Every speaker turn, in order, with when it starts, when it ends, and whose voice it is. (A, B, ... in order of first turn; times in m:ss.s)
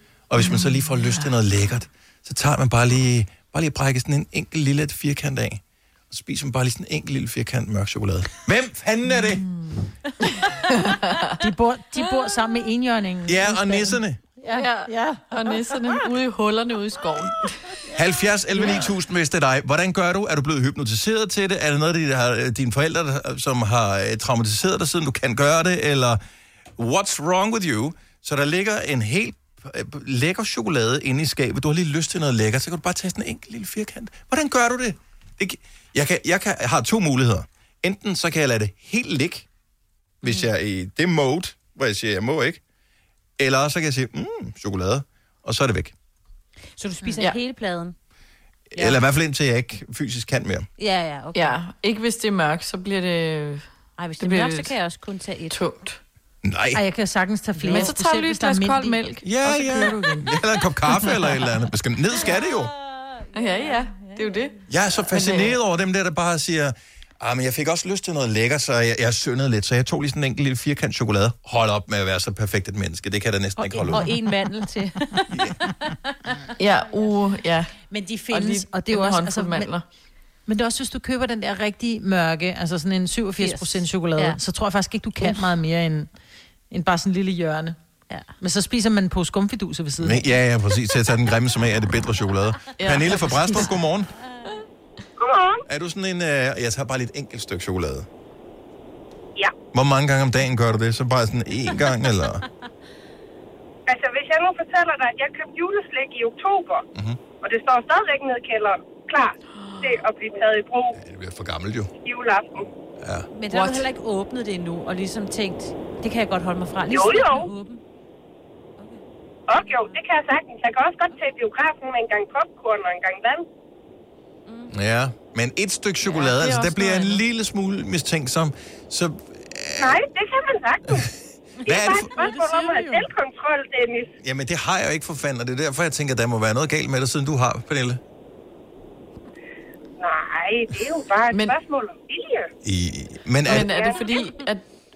0:00.3-0:09.5 A
0:00.5-0:00.8 B
0:09.2-0:11.4 B
0:11.4-0:15.8 C
0:13.3-0:14.2 A
0:14.5-0:17.8 B
0:17.9-0:26.2 A
0:26.8-0:39.5 A
0:40.2-0:42.6 A
0:43.4-0:45.9 A
0:46.8-0:47.9 D
0:48.7-0:50.7 A
0:50.8-0:51.6 D
0:51.3-0:53.6 B
0:54.0-0:55.6 D
0:54.2-0:54.8 B
0:55.5-0:56.0 B
0:56.4-0:56.8 A
0:56.7-0:59.0 C
0:57.6-0:57.9 D
0:57.6-1:00.4 B
0:59.2-1:02.7 A
1:01.0-1:01.5 B
1:02.3-1:04.4 D
1:03.3-1:04.6 B
1:04.7-1:14.1 A
1:05.1-1:05.6 B
1:13.6-1:15.9 D
1:16.6-1:17.7 B
1:17.9-1:19.7 C
1:18.3-1:19.8 B
1:20.4-1:26.1 C
1:23.4-1:24.4 D
1:26.7-1:27.8 C
1:28.4-1:30.3 C
1:30.0-1:34.1 A
1:32.8-1:33.7 B
1:35.2-1:35.6 E
1:35.6-1:38.1 A
1:39.7-1:42.4 A
1:43.9-1:46.8 E
1:46.9-1:47.2 A
1:47.4-1:51.0 E
1:49.5-1:50.0 B
1:51.0-1:51.9 A
1:52.0-1:52.7 E
1:53.0-1:53.3 A
1:53.3-1:57.8 D
1:53.5-1:53.9 B
1:56.9-1:57.5 E
1:58.8-2:00.0 D
1:59.5-2:03.4 E
2:04.5-2:04.7 D
2:04.7-2:10.0 A
2:06.1-2:07.2 B
2:09.8-2:11.1 E
2:11.6-2:12.1 A
2:11.6-2:14.1 E
2:12.0-2:13.1 C
2:14.2-2:18.0 A
2:20.0-2:22.5 E
2:21.3-2:21.6 B
2:22.6-2:23.8 A
2:23.4-2:24.6 B
2:23.5-2:24.2 E